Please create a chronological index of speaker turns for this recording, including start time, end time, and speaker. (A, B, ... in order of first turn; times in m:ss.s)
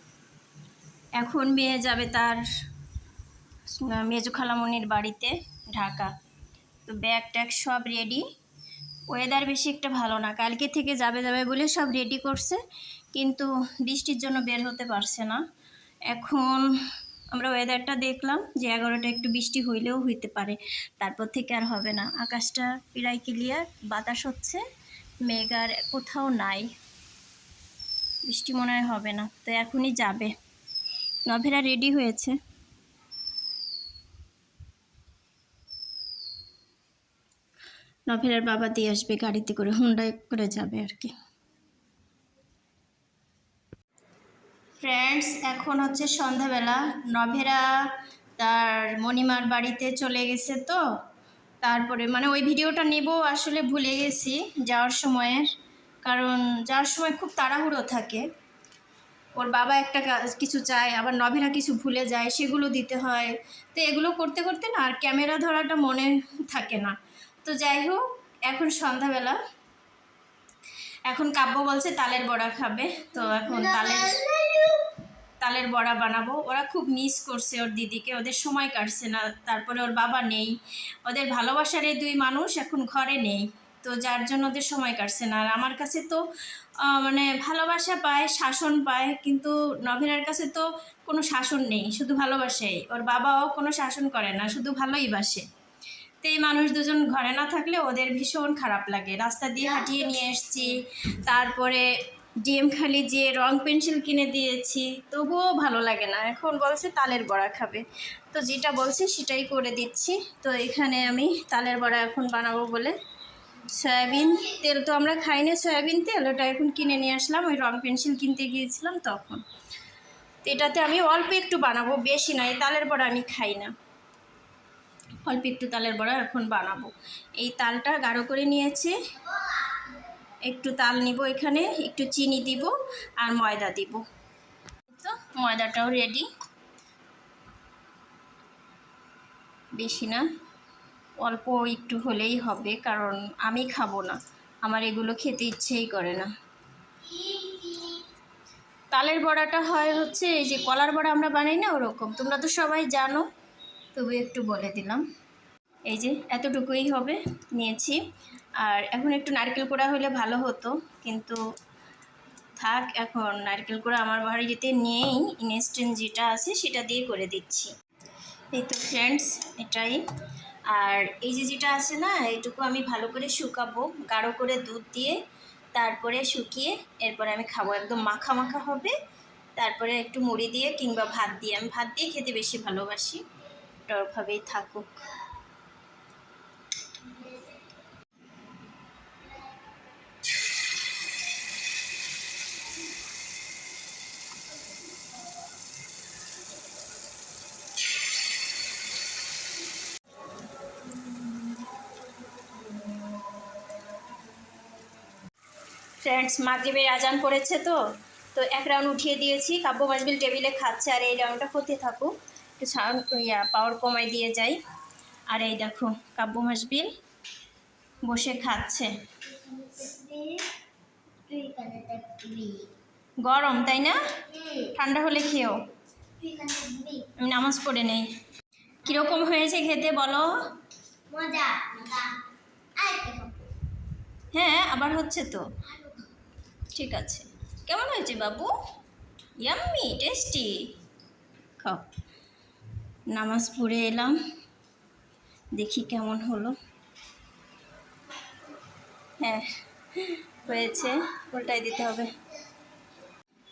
0:01.2-0:02.4 A
0:03.7-0:06.1 A
0:06.9-0:08.2 A
0:09.1-0:12.6 A
0:13.1-0:15.4 A
0:16.1-0:16.7 A
0:17.3-0:24.6 A
0:25.2-0:26.7 A
0:28.3-0:30.3 A
0:31.3-0:32.4 A
0:38.1-0:41.1 A
0:44.8-0:47.7 A
0:48.4-0:50.8 A
0:51.6-0:55.5 A
0:56.0-0:58.2 A
0:59.4-1:09.4 A
1:11.1-1:14.2 A
1:13.2-1:14.9 B
1:15.4-1:26.2 A
1:26.8-1:35.4 A
1:36.2-1:41.8 A
1:42.4-1:53.0 A
1:53.6-1:59.4 A
2:00.4-2:03.7 A
2:05.2-2:09.0 A
2:09.4-2:09.9 B
2:10.5-2:14.0 A
2:14.9-2:16.3 A
2:19.8-2:20.3 A
2:21.2-2:26.3 A
2:27.1-2:28.0 B
2:28.9-2:33.3 A
2:33.9-2:35.0 A
2:35.9-2:38.0 A
2:38.6-2:41.4 A
2:42.6-2:47.7 A
2:48.5-2:50.0 A
2:50.7-2:55.2 A
2:55.8-2:59.0 A
2:59.6-3:03.2 A
3:03.9-3:04.9 A
3:07.1-3:07.4 B
3:26.0-3:27.8 A
3:28.3-3:34.6 A
3:35.3-3:36.9 A
3:38.0-3:38.9 A
3:39.3-3:40.4 B
3:41.3-3:42.7 B
3:43.2-3:44.0 A
3:44.3-3:44.7 B
3:44.7-3:45.6 A
3:46.2-3:47.0 B
3:47.2-3:48.1 A
3:48.8-3:50.3 A
3:51.1-3:52.1 B
3:52.8-3:53.4 B
3:54.3-3:55.5 A
3:56.7-3:58.5 A
3:59.4-4:00.6 A
4:01.6-4:01.8 A
4:03.1-4:04.2 A
4:05.6-4:06.6 A
4:09.2-4:12.2 A